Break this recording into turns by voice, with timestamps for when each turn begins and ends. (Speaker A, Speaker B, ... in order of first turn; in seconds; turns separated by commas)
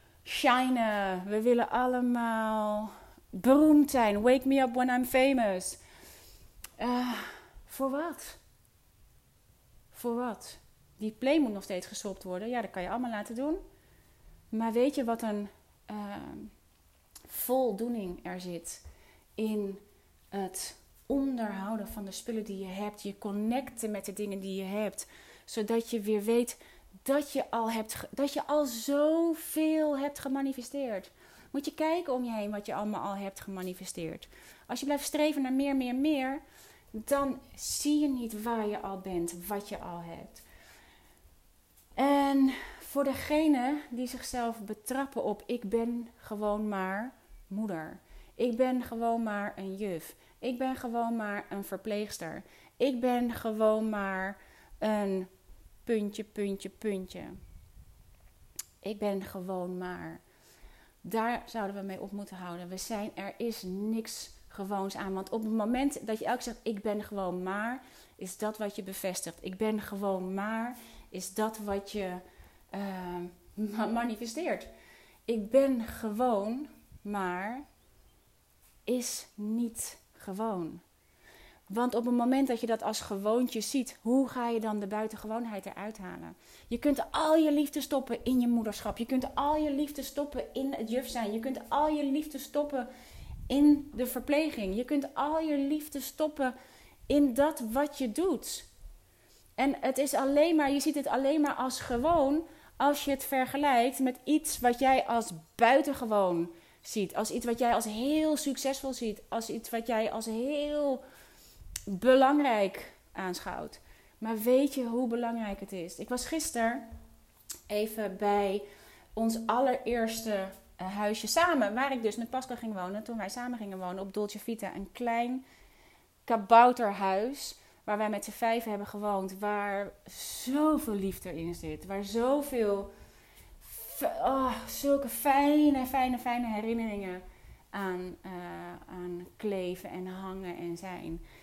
Speaker A: 0.2-5.8, Speaker A: 6.8-8.4, Speaker A: 9.9-13.6, Speaker A: 14.5-16.5, Speaker A: 17.3-18.8, Speaker A: 19.4-36.4, Speaker A: 36.9-40.4, Speaker A: 42.0-55.3, Speaker A: 55.8-57.4, Speaker A: 58.8-60.2, Speaker A: 61.0-74.7, Speaker A: 75.3-77.6, Speaker A: 78.8-80.8, Speaker A: 81.7-92.9, Speaker A: 93.5-96.5, Speaker A: 97.1-98.7, Speaker A: 99.6-111.0, Speaker A: 111.9-116.8, Speaker A: 117.7-118.6, Speaker A: 119.1-125.4, Speaker A: 126.2-132.9, Speaker A: 133.6-141.2